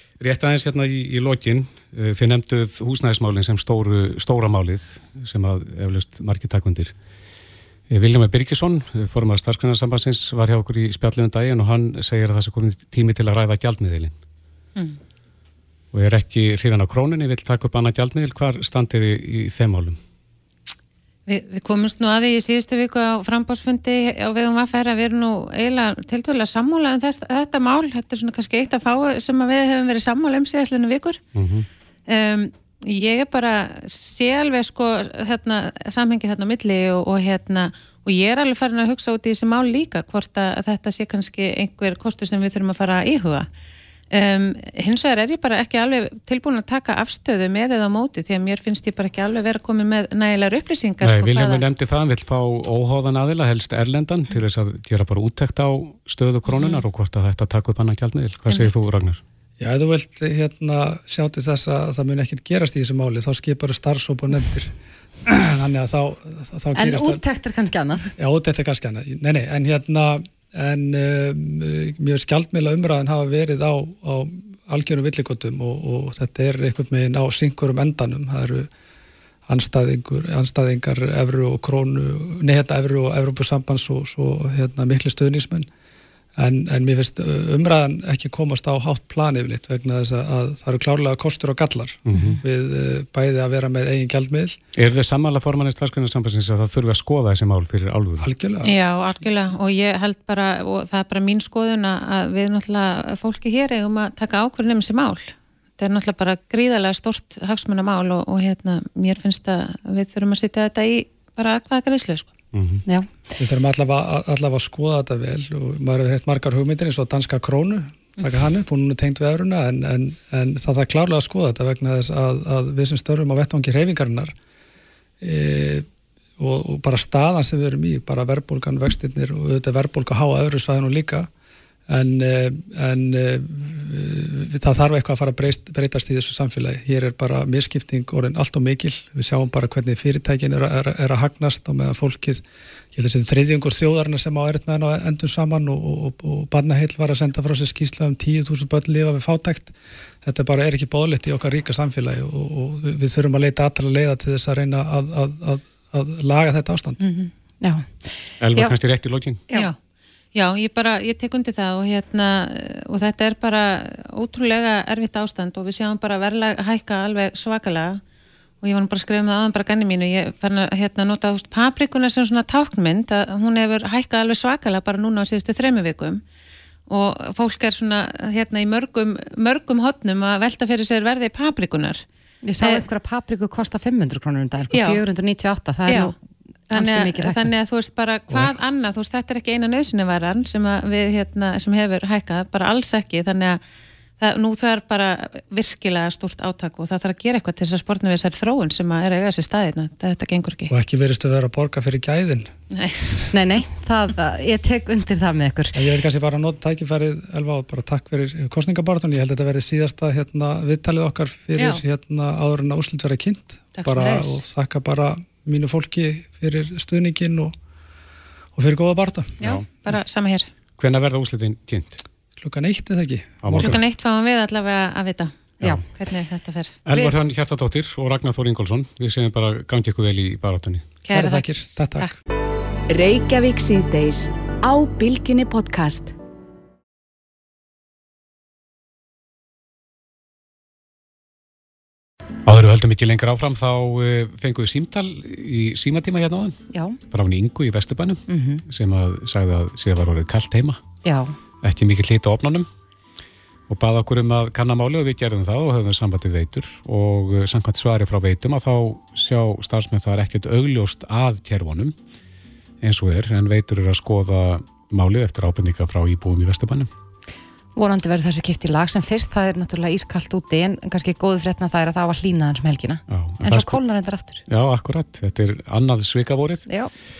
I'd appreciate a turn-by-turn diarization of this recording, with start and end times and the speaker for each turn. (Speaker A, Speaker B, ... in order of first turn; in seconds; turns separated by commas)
Speaker A: 0.2-7.0, Speaker A: 7.9-14.2, Speaker A: 15.9-20.0, Speaker B: 21.3-31.2, Speaker A: 31.4-31.7, Speaker B: 32.1-43.5, Speaker B: 44.1-51.6, Speaker A: 51.0-59.2, Speaker B: 56.5-56.8, Speaker B: 58.5-58.7, Speaker C: 59.6-64.7, Speaker C: 65.2-67.2, Speaker D: 66.8-68.1, Speaker C: 68.2-78.7, Speaker C: 79.5-85.7, Speaker C: 86.4-94.6, Speaker A: 92.1-92.4, Speaker A: 94.8-98.3, Speaker C: 98.2-98.7, Speaker B: 98.6-112.3, Speaker A: 112.5-112.8, Speaker C: 113.4-124.3, Speaker C: 125.2-125.9, Speaker C: 126.4-131.3, Speaker C: 131.9-142.4, Speaker C: 142.9-157.0, Speaker B: 157.0-157.3, Speaker D: 157.6-157.9, Speaker A: 158.4-159.4, Speaker B: 159.5-159.8, Speaker B: 160.3-168.0, Speaker B: 168.6-176.2, Speaker B: 176.9-182.1, Speaker D: 182.4-186.2, Speaker B: 184.7-185.0, Speaker B: 185.9-186.1, Speaker B: 186.7-193.6, Speaker D: 186.7-187.4, Speaker B: 194.2-200.7, Speaker C: 200.7-202.5, Speaker B: 202.7-203.1, Speaker D: 203.3-205.8, Speaker C: 205.7-217.6, Speaker B: 213.8-214.3, Speaker C: 218.6-219.4, Speaker B: 219.4-220.5, Speaker A: 220.8-222.0, Speaker C: 222.4-223.8, Speaker A: 223.4-223.8, Speaker B: 223.5-227.1, Speaker A: 226.9-230.9, Speaker B: 231.0-232.1, Speaker C: 231.1-232.1, Speaker E: 232.9-236.1, Speaker A: 242.4-246.6, Speaker D: 246.7-247.0, Speaker A: 247.1-250.8, Speaker D: 248.3-248.6, Speaker D: 251.0-251.3, Speaker A: 251.6-252.7, Speaker A: 253.7-261.9, Speaker A: 262.8-266.9, Speaker D: 267.8-274.4, Speaker A: 273.1-273.8, Speaker A: 274.5-276.7